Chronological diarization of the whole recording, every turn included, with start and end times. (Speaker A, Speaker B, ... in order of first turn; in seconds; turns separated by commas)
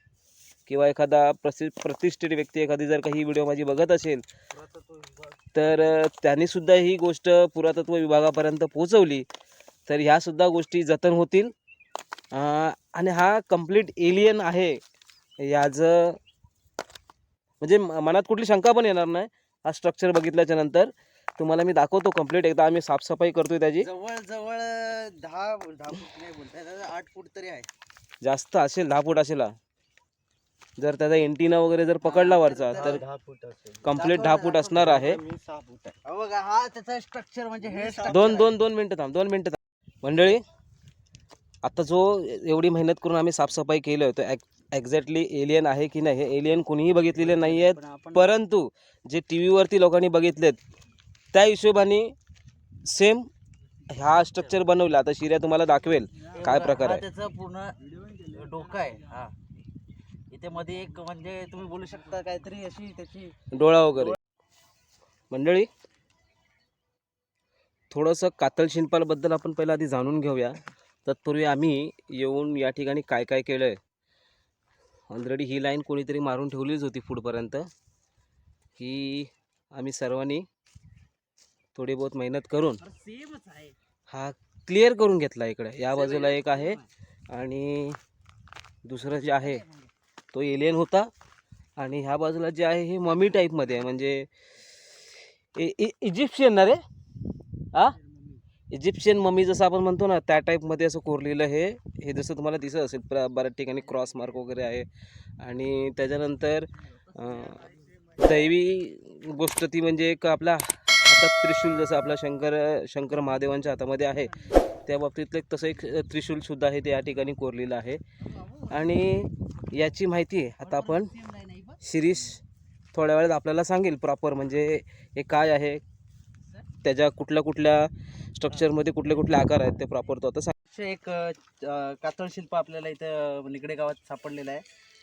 Speaker A: 0.7-4.2, Speaker B: 4.7-5.2, Speaker A: 5.5-9.3, Speaker A: 9.9-11.5, Speaker A: 12.3-14.8, Speaker A: 15.4-16.2, Speaker A: 17.6-23.9, Speaker B: 23.8-27.7, Speaker A: 28.2-29.5, Speaker A: 30.8-33.0, Speaker B: 32.0-33.0, Speaker C: 32.8-33.9, Speaker A: 33.8-35.2, Speaker B: 33.9-35.0, Speaker C: 34.8-36.0, Speaker B: 36.0-38.5, Speaker C: 37.7-38.2, Speaker A: 38.1-40.4, Speaker A: 41.6-50.6, Speaker B: 47.2-48.3, Speaker A: 51.3-52.1, Speaker A: 52.8-53.3, Speaker A: 53.9-57.0, Speaker B: 56.3-59.3, Speaker B: 60.3-63.3, Speaker A: 63.5-64.2, Speaker A: 65.3-65.7, Speaker A: 67.9-73.8, Speaker A: 75.1-77.7, Speaker A: 78.8-80.5, Speaker A: 81.7-82.8, Speaker B: 82.8-83.7, Speaker A: 84.1-86.8, Speaker B: 85.8-86.9, Speaker A: 87.3-88.0, Speaker A: 88.8-89.6, Speaker B: 89.2-89.9, Speaker A: 90.3-91.1, Speaker A: 91.8-94.3, Speaker A: 95.5-96.8, Speaker A: 97.7-98.0, Speaker A: 98.7-104.9, Speaker A: 105.4-118.0, Speaker B: 118.2-119.1, Speaker A: 118.7-121.1, Speaker B: 120.6-121.8, Speaker A: 121.8-122.4, Speaker A: 122.9-125.8, Speaker A: 126.8-130.5, Speaker B: 130.7-134.6